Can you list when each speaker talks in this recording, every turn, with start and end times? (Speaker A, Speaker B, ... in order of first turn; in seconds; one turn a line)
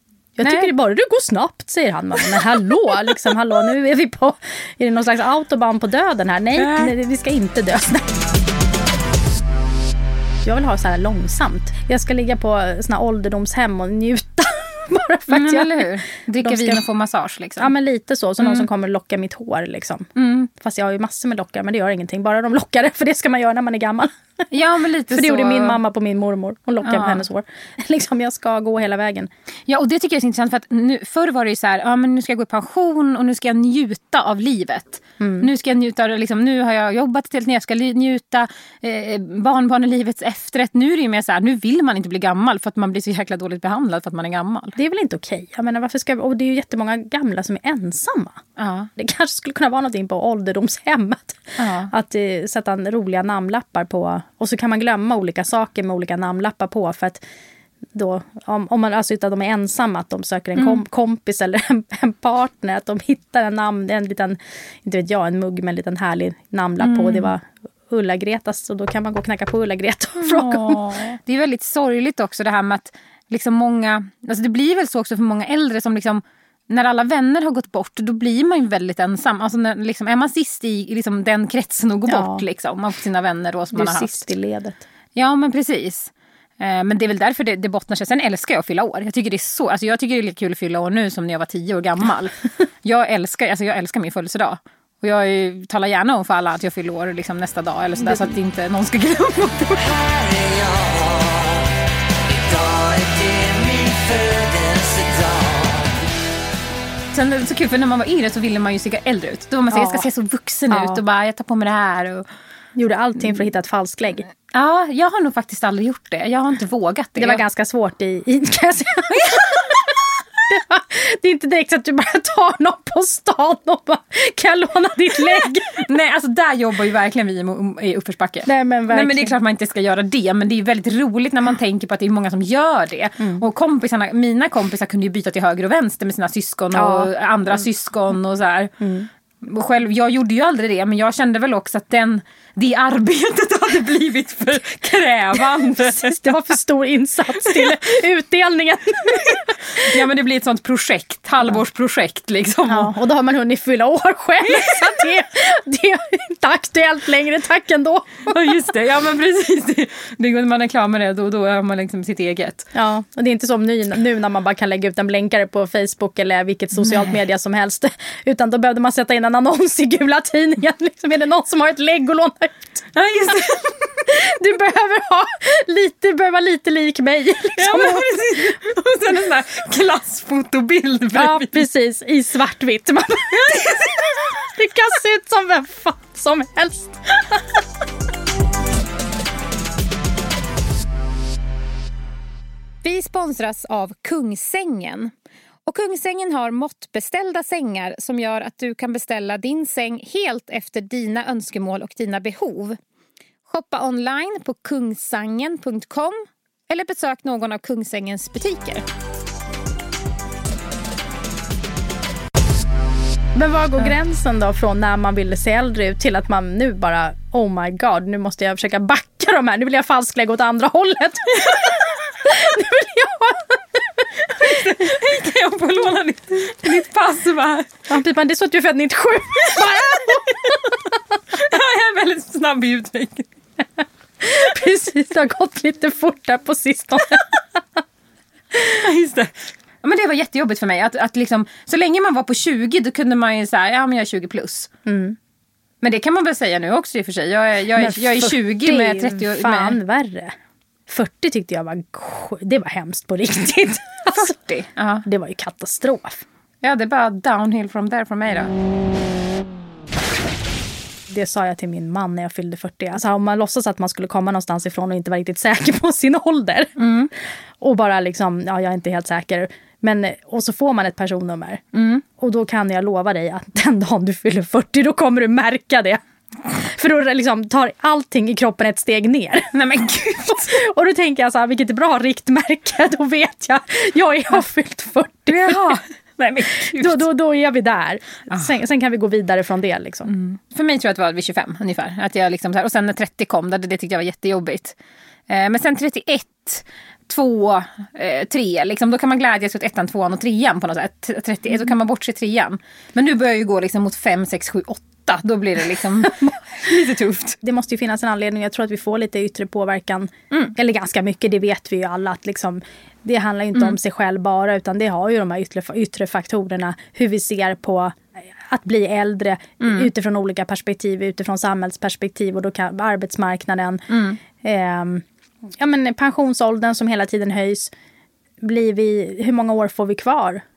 Speaker A: 0.3-8.1
Speaker B: 0.4-0.7
Speaker B: 6.5-6.9
Speaker A: 10.4-15.9
Speaker B: 15.3-17.7
Speaker A: 16.4-16.8
Speaker A: 17.6-24.1
Speaker B: 18.4-18.7
Speaker B: 20.1-20.5
Speaker B: 24.5-25.8
Speaker A: 25.1-29.3
Speaker B: 26.8-27.2
Speaker B: 29.7-44.8
Speaker A: 35.2-35.5
Speaker A: 44.8-48.4
Speaker B: 48.6-48.9
Speaker A: 49.0-57.2
Speaker B: 51.6-51.9
Speaker A: 57.9-71.0
Speaker B: 60.5-60.8
Speaker B: 66.8-67.3
Speaker B: 70.2-84.3
Speaker A: 82.1-82.4
Speaker A: 83.7-84.8
Speaker B: 85.1-100.3
Speaker C: 100.3-101.2
Speaker C: 102.5-105.7
Speaker B: 107.1-112.3
Speaker A: 109.7-110.1
Speaker A: 110.7-111.0
Speaker A: 112.8-114.3
Speaker B: 114.5-117.4
Speaker A: 117.2-119.8
Speaker B: 119.1-119.8
Speaker A: 120.5-125.9
Speaker B: 125.8-138.7
Speaker A: 128.4-129.3
Speaker A: 133.2-133.4
Speaker A: 136.7-137.1
Speaker A: 138.8-139.1
Speaker B: 139.4-146.3
Speaker A: 145.6-149.9
Speaker B: 147.4-147.8
Speaker B: 149.2-152.9
Speaker A: 152.7-158.3
Speaker B: 154.5-154.9
Speaker B: 158.3-162.7
Speaker A: 162.7-172.9
Speaker B: 172.9-174.1
Speaker A: 174.1-178.2
Speaker B: 177.6-181.7
Speaker A: 181.1-187.6
Speaker B: 183.3-184.3
Speaker B: 192.8-195.1
Speaker B: 195.7-202.8
Speaker B: 203.4-208.8
Speaker A: 213.3-224.1
Speaker B: 224.3-227.7
Speaker A: 227.9-230.9
Speaker B: 229.4-230.7
Speaker B: 231.3-233.3
Speaker A: 234.2-237.6
Speaker B: 238.5-244.7
Speaker A: 244.8-245.2
Speaker B: 245.8-249.8
Speaker A: 247.7-250.3
Speaker A: 250.9-254.3
Speaker B: 254.1-255.1
Speaker A: 255.1-256.2
Speaker B: 256.6-258.5
Speaker A: 261.1-266.8
Speaker B: 266.8-267.1
Speaker A: 267.6-271.6
Speaker B: 271.7-272.0
Speaker A: 272.2-279.6
Speaker B: 279.5-280.6
Speaker A: 280.3-285.8
Speaker B: 285.3-287.1
Speaker A: 286.5-290.1
Speaker B: 290.1-294.8
Speaker B: 295.3-307.4
Speaker A: 307.4-323.9
Speaker B: 319.6-319.9
Speaker B: 323.9-324.2
Speaker A: 324.4-325.1
Speaker A: 325.6-327.7
Speaker A: 328.4-330.4